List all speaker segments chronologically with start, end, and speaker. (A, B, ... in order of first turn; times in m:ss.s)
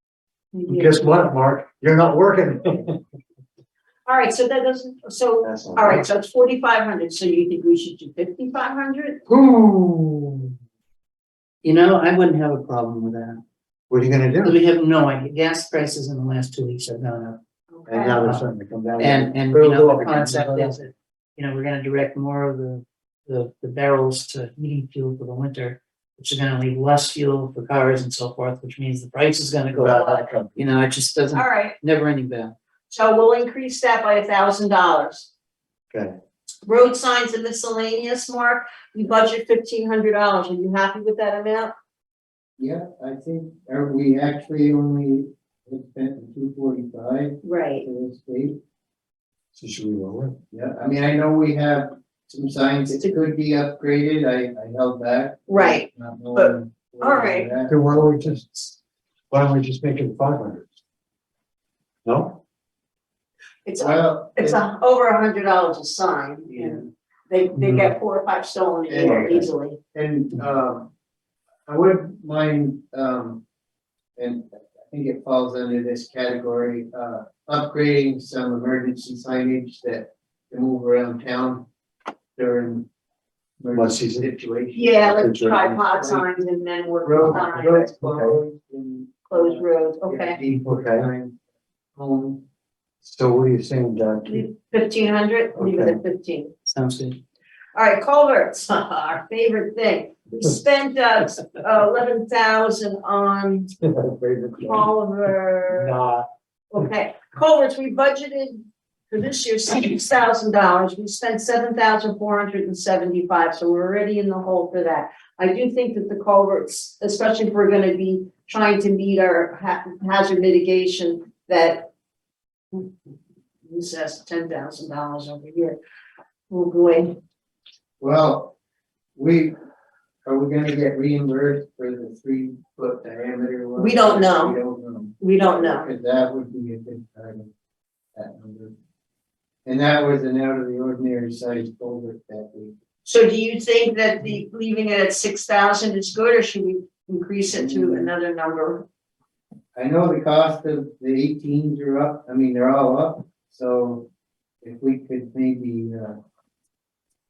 0:00.5-0:01.2 A
0:00.7-0:03.0 B
0:04.1-0:09.2 A
0:05.4-0:06.1 B
0:09.3-0:10.5 B
0:11.6-0:13.4 C
0:13.9-0:14.6 B
0:14.4-0:17.4 C
0:17.7-0:18.2 A
0:17.9-0:20.8 B
0:18.2-0:18.4 C
0:19.0-0:32.6 C
0:29.7-0:30.6 B
0:31.3-0:31.8 A
0:32.9-0:35.3 A
0:35.9-0:36.2 B
0:36.6-0:41.7 A
0:42.6-0:48.6 D
0:47.4-0:47.9 A
0:49.5-0:50.4 B
0:50.5-0:57.8 D
0:55.5-0:57.5 A
0:57.7-0:58.8 B
0:59.3-1:00.7 B
1:02.0-1:02.4 B
1:03.6-1:09.8 A
1:03.8-1:04.6 D
1:06.5-1:06.9 D
1:07.6-1:07.9 B
1:08.9-1:09.4 D
1:09.0-1:09.5 B
1:09.9-1:10.9 D
1:11.7-1:13.4 D
1:14.2-1:21.7 D
1:22.4-1:22.9 D
1:23.6-1:25.1 D
1:23.7-1:24.3 B
1:24.8-1:27.8 A
1:25.0-1:25.9 B
1:27.0-1:31.4 D
1:27.2-1:28.4 B
1:29.3-1:30.4 A
1:30.5-1:31.1 B
1:32.0-1:32.4 D
1:33.0-1:34.5 B
1:34.2-1:36.6 A
1:35.6-1:36.0 B
1:36.7-1:37.2 C
1:37.8-1:43.7 A
1:43.8-1:44.9 B
1:44.6-1:46.0 A
1:45.7-1:46.3 B
1:46.7-2:01.9 A
2:03.6-2:05.8 A
2:06.5-2:07.2 A
2:08.0-2:08.6 D
2:09.2-2:09.6 D
2:10.3-2:17.5 D
2:13.8-2:14.6 A
2:15.2-2:15.9 A
2:18.2-2:18.8 D
2:19.6-2:22.7 D
2:23.0-2:28.8 A
2:27.5-2:28.1 D
2:29.8-2:34.1 D
2:34.6-2:36.2 D